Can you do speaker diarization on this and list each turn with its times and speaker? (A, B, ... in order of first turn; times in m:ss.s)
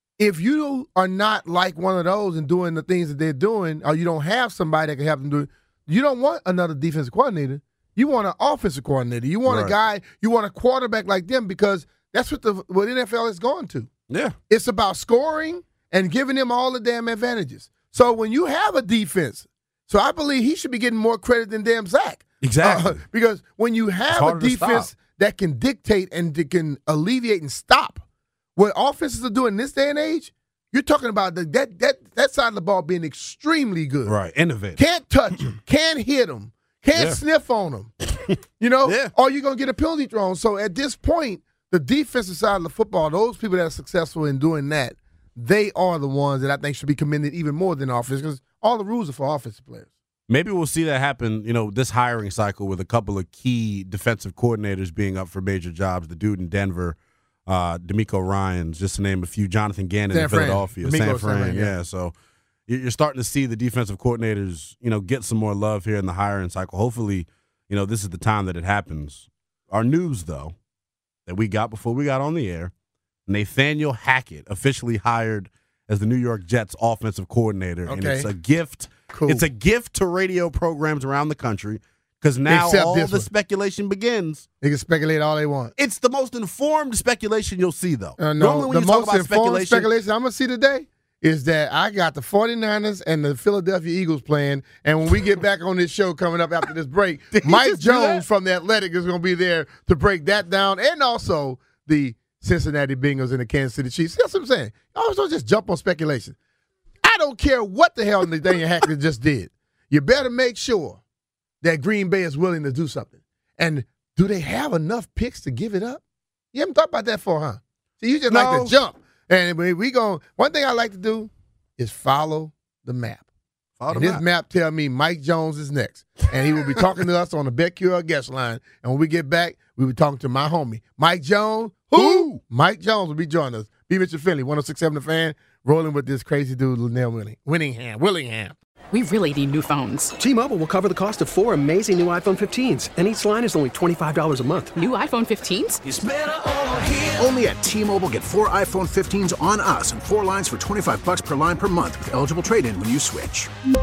0:00.2-0:13.9 A
0:09.5-0:09.7 B
0:14.1-0:14.4 B
0:14.5-0:28.0 A
0:22.4-0:23.0 B
0:24.1-0:24.9 B
0:28.6-0:34.2 A
0:34.1-0:34.8 B
0:34.8-0:37.9 A
0:37.0-0:37.2 B
0:38.0-0:39.1 B
0:38.6-0:49.9 A
0:50.3-0:57.0 B
0:57.5-1:02.1 B
1:00.1-1:01.7 A
1:02.7-1:10.6 B
1:11.3-1:12.7 B
1:13.3-1:24.5 B
1:17.9-1:18.3 A
1:19.1-1:19.4 A
1:22.5-1:23.3 A
1:24.6-1:25.7 A
1:25.8-1:29.9 B
1:28.2-1:46.4 A
1:37.3-1:38.2 B
1:47.0-1:51.0 A
1:51.6-1:56.0 A
1:56.5-2:03.2 A
1:58.3-1:58.7 B
2:03.8-2:04.2 B
2:03.9-2:18.6 A
2:12.0-2:12.4 B
2:18.9-2:20.1 C
2:20.2-2:24.8 D
2:24.8-2:25.8 C
2:25.8-2:33.5 E